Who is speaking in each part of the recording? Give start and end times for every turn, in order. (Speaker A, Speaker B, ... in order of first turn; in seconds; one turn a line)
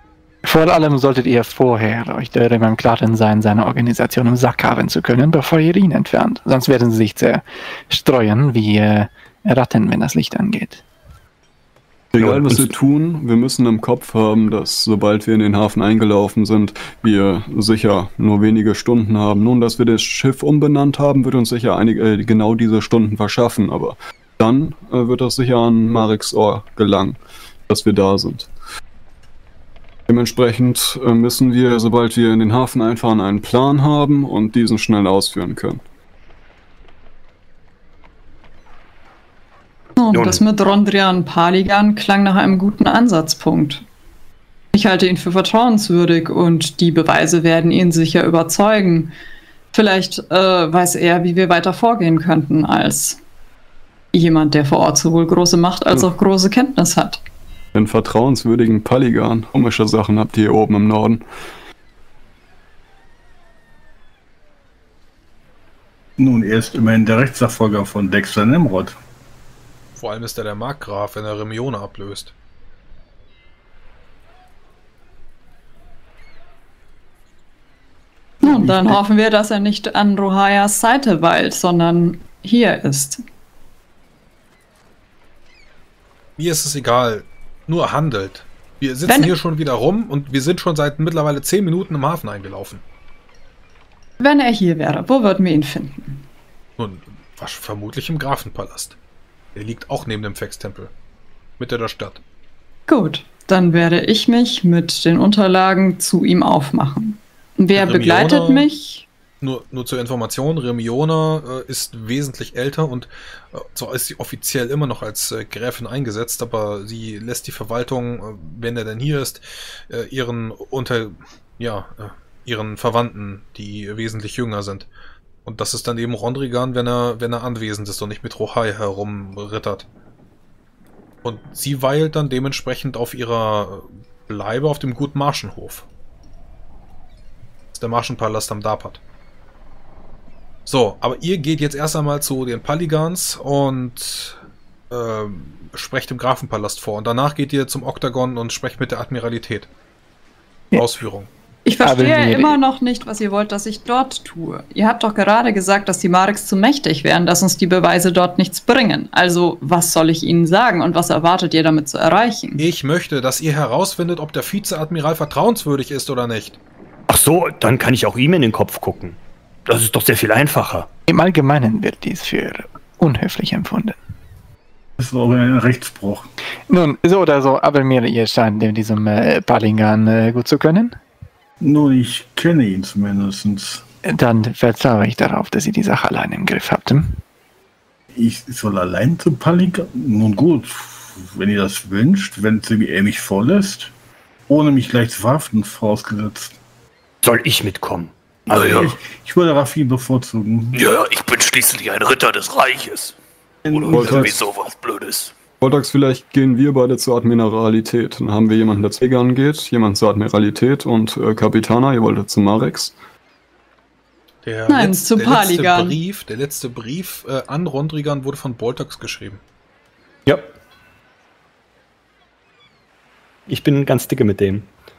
Speaker A: 0.4-10.8
Speaker B: 12.1-28.5
Speaker C: 12.2-12.7
Speaker B: 30.1-35.8
Speaker D: 40.0-43.8
Speaker C: 40.1-40.4
Speaker D: 44.7-49.1
Speaker D: 49.7-53.2
Speaker D: 54.1-57.2
Speaker B: 57.7-61.2
Speaker E: 66.2-69.0
Speaker F: 70.0-72.3
Speaker D: 78.4-83.2
Speaker F: 86.4-92.8
Speaker D: 89.1-89.3
Speaker D: 94.2-96.2
Speaker F: 96.8-99.0
Speaker F: 99.5-100.9
Speaker F: 101.6-102.2
Speaker D: 102.9-109.1
Speaker F: 107.8-108.7
Speaker F: 109.4-124.9
Speaker F: 125.4-129.8
Speaker F: 131.2-135.8
Speaker F: 137.7-139.0
Speaker F: 140.7-149.7
Speaker F: 150.7-151.3
Speaker D: 151.6-162.6
Speaker A: 151.8-152.6
Speaker F: 162.6-166.6
Speaker C: 167.1-170.9
Speaker A: 171.1-174.0
Speaker E: 175.0-176.3
Speaker A: 176.7-181.0
Speaker E: 181.6-183.8
Speaker A: 184.0-187.2
Speaker E: 188.1-193.9
Speaker E: 194.5-196.5
Speaker C: 197.2-198.9
Speaker G: 198.5-198.9
Speaker E: 198.5-200.8
Speaker G: 200.7-203.1
Speaker E: 203.6-204.3
Speaker G: 203.7-205.3
Speaker B: 203.9-204.3
Speaker B: 205.6-212.9
Speaker F: 214.4-219.4
Speaker D: 214.7-216.0
Speaker C: 220.2-220.5
Speaker C: 223.5-224.7